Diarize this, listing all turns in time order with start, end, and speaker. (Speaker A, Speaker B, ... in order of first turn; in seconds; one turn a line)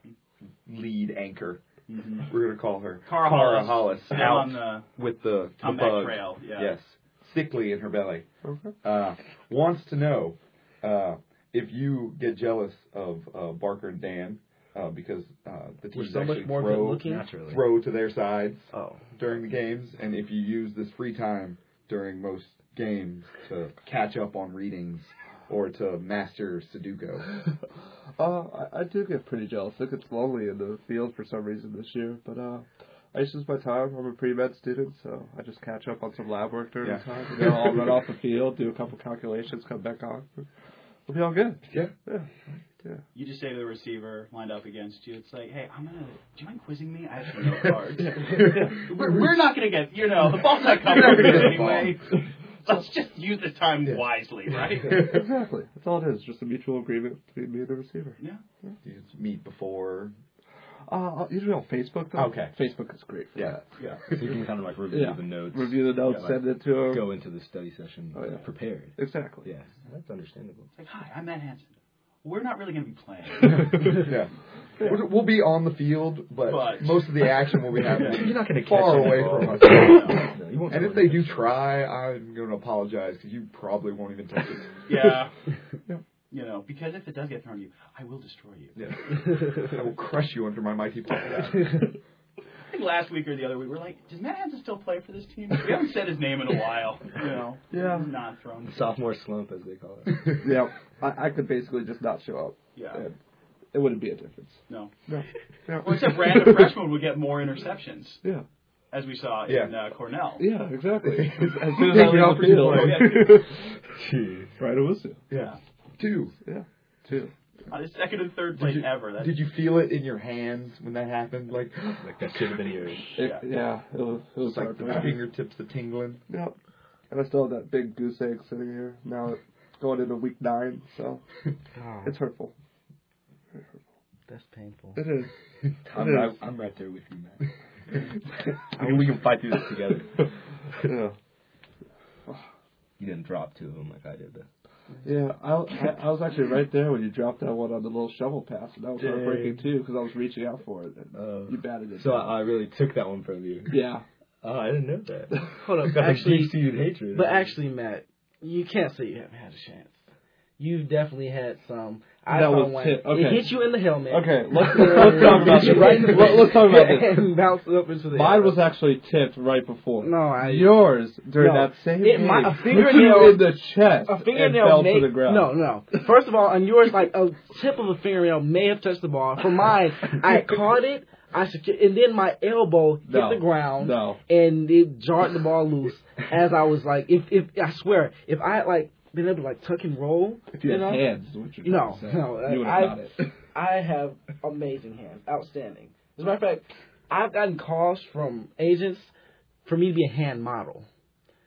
Speaker A: 0.7-1.6
Speaker B: 1.9-2.3
Speaker A: 2.2-8.3
Speaker B: 3.0-4.9
Speaker B: 5.6-6.7
Speaker C: 8.4-8.8
Speaker A: 8.8-27.3
Speaker D: 15.9-17.3
Speaker E: 17.1-17.6
Speaker D: 18.7-19.0
Speaker C: 28.2-40.5
Speaker A: 36.8-38.0
Speaker C: 41.1-42.3
Speaker A: 41.7-41.9
Speaker B: 43.1-55.1
Speaker A: 47.4-47.7
Speaker A: 48.2-49.2
Speaker C: 48.3-48.8
Speaker A: 50.6-52.0
Speaker A: 53.8-54.1
Speaker A: 54.9-55.2
Speaker C: 55.0-58.7
Speaker A: 58.8-60.1
Speaker C: 60.9-63.6
Speaker A: 62.1-62.6
Speaker A: 63.4-64.4
Speaker E: 64.1-70.7
Speaker C: 64.9-67.1
Speaker C: 68.1-69.5
Speaker B: 70.8-73.9
Speaker A: 73.7-85.2
Speaker C: 74.8-75.1
Speaker B: 76.4-77.3
Speaker B: 77.9-78.2
Speaker E: 78.0-81.7
Speaker B: 79.8-80.2
Speaker B: 84.9-85.3
Speaker B: 86.3-89.0
Speaker A: 88.8-91.9
Speaker B: 92.7-98.9
Speaker C: 97.7-98.1
Speaker E: 98.6-100.4
Speaker C: 100.4-103.2
Speaker B: 102.8-103.0
Speaker C: 103.7-106.7
Speaker B: 105.8-108.2
Speaker B: 108.9-110.4
Speaker A: 109.5-109.8
Speaker C: 110.4-113.4
Speaker A: 111.0-113.3
Speaker E: 111.9-114.5
Speaker B: 112.8-113.4
Speaker C: 114.6-115.2
Speaker A: 115.3-116.3
Speaker C: 116.4-117.3
Speaker B: 117.7-119.4
Speaker A: 118.5-122.6
Speaker E: 122.0-123.2
Speaker C: 123.2-125.2
Speaker B: 123.2-123.5
Speaker A: 124.4-126.2
Speaker C: 126.3-126.6
Speaker C: 127.1-131.2
Speaker D: 131.8-132.2
Speaker C: 132.0-132.5
Speaker C: 133.5-133.8
Speaker D: 134.3-135.0
Speaker C: 135.0-135.3
Speaker E: 135.8-141.0
Speaker C: 135.9-136.4
Speaker C: 140.8-141.2
Speaker E: 143.0-144.5
Speaker C: 145.0-152.4
Speaker E: 149.0-149.6
Speaker E: 151.2-153.8
Speaker C: 153.7-154.0
Speaker E: 154.4-157.5
Speaker D: 155.6-160.0
Speaker D: 160.6-168.7
Speaker C: 162.3-163.6
Speaker C: 164.1-167.2
Speaker C: 168.1-175.6
Speaker D: 170.0-191.1
Speaker C: 183.1-184.2
Speaker C: 190.6-193.2
Speaker D: 191.6-199.1
Speaker D: 199.7-200.9